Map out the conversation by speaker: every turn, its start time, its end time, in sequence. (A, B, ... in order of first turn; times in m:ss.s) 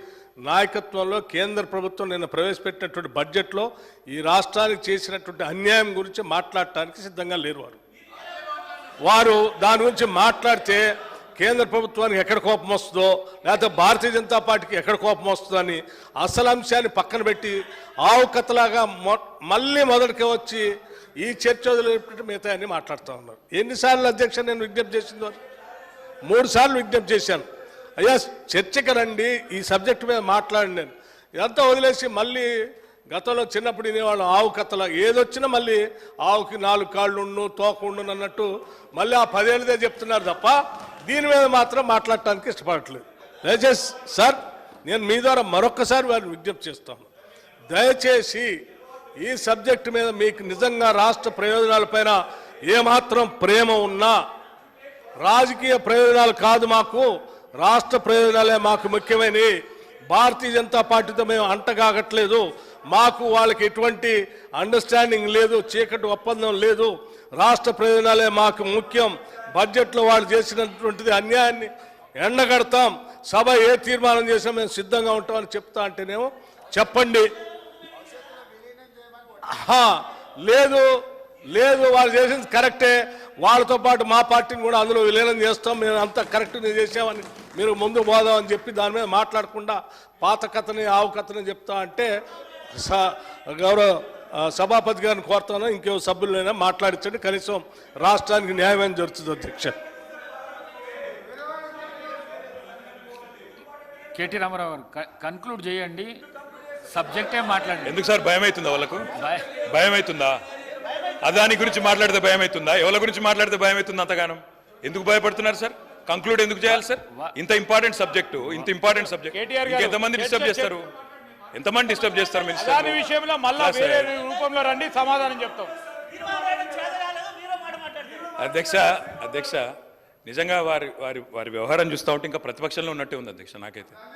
0:00.4-0:07.8 A
0:09.0-0:10.8 A
0:11.4-0:20.6 A
0:21.2-0:25.4 A
0:26.2-0:27.4 A
0:28.0-0:32.5 A
0:33.1-0:47.1 A
0:47.7-0:48.5 A
0:49.2-0:54.2 A
0:55.2-0:57.1 A
0:57.6-0:59.5 A
1:00.1-1:17.3 A
1:19.5-1:19.9 A
1:20.4-1:20.9 A
1:21.5-1:32.1 A
1:32.8-1:39.8 A
1:44.1-1:46.2 B
1:46.9-1:48.0 B
1:47.8-1:50.4 C
1:49.2-1:49.4 B
1:51.2-2:00.9 C
1:59.4-2:00.5 D
2:01.5-2:04.2 C
2:02.7-2:05.7 D
2:06.5-2:06.9 D
2:08.4-2:09.6 C
2:10.2-2:13.9 C